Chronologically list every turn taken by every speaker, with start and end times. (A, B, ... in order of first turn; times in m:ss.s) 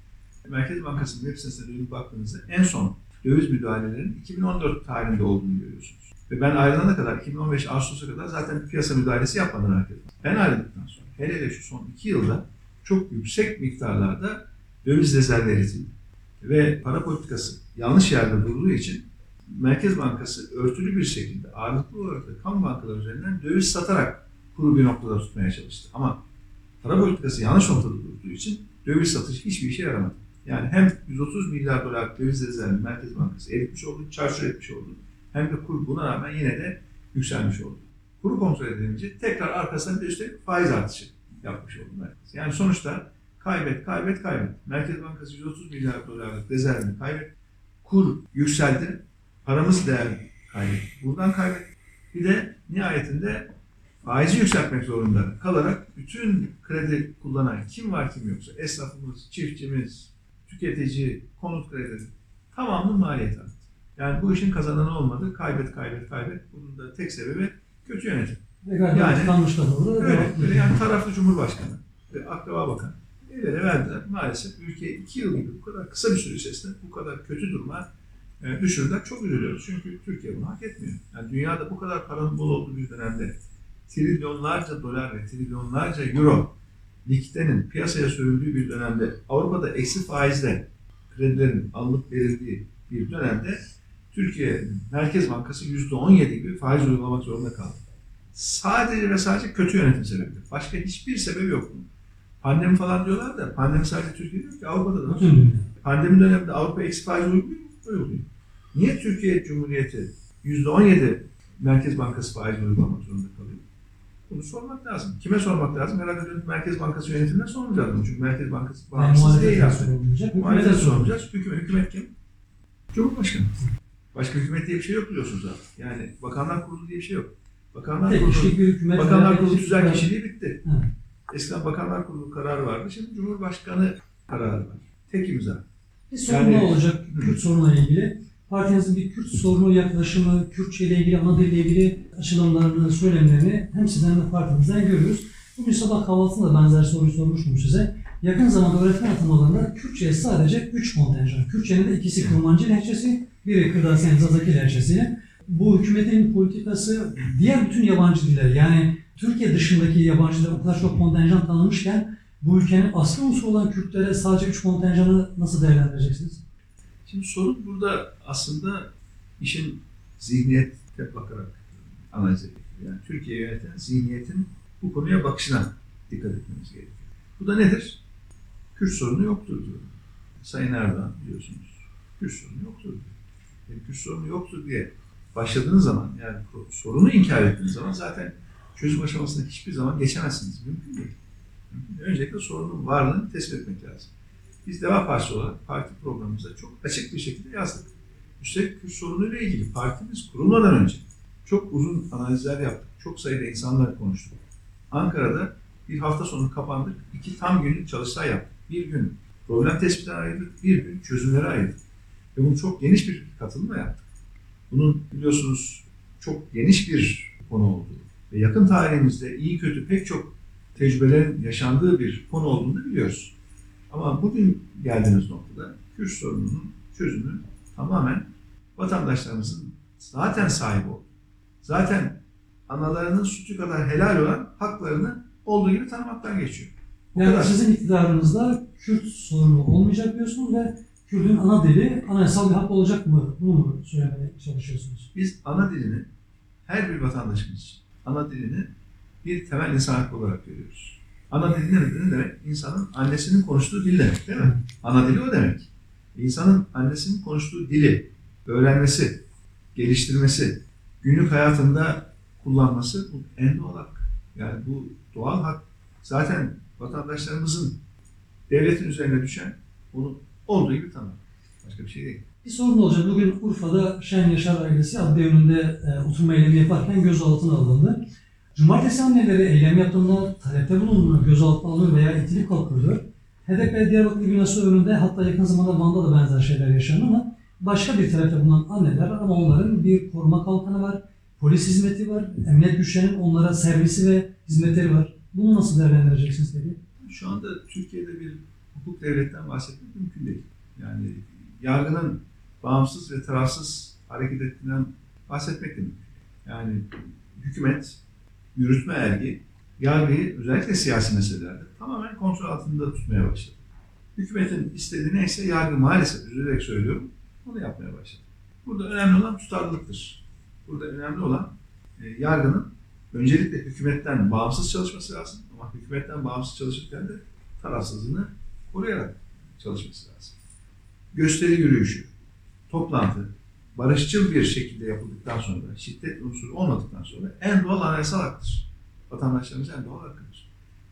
0:00.4-0:26.2 A
0:26.8-0:47.3 A
0:47.8-0:53.5 A
0:54.0-1:08.4 A
1:08.6-1:10.8 B
1:08.9-1:09.4 A
1:10.0-1:17.9 A
1:18.4-1:23.3 A
1:23.9-1:33.6 A
1:34.1-1:37.8 A
1:38.3-1:41.9 A
1:42.4-1:53.6 A
1:45.1-1:45.6 B
1:54.3-2:02.1 A
1:58.9-2:01.1 B
2:02.9-2:03.6 A
2:04.1-2:10.6 A
2:08.0-2:10.1 B
2:11.3-2:15.6 A
2:16.1-2:46.4 B
2:16.3-2:17.4 A
2:47.0-2:58.0 A
2:58.7-3:03.1 A
3:03.7-3:11.2 A
3:11.7-3:14.1 A
3:14.6-3:31.8 A
3:32.3-3:34.0 A
3:34.7-3:43.3 A
3:43.9-3:51.1 A
3:51.6-3:57.6 A
3:57.2-4:05.1 B
4:05.1-4:06.1 A
4:06.6-4:08.7 A
4:09.2-4:27.8 A
4:28.5-4:32.2 A
4:32.4-4:38.0 B
4:38.5-4:56.8 B
4:57.1-5:08.0 A
5:08.5-5:13.6 A
5:14.2-5:30.3 A
5:31.1-5:32.1 A
5:32.7-5:40.5 A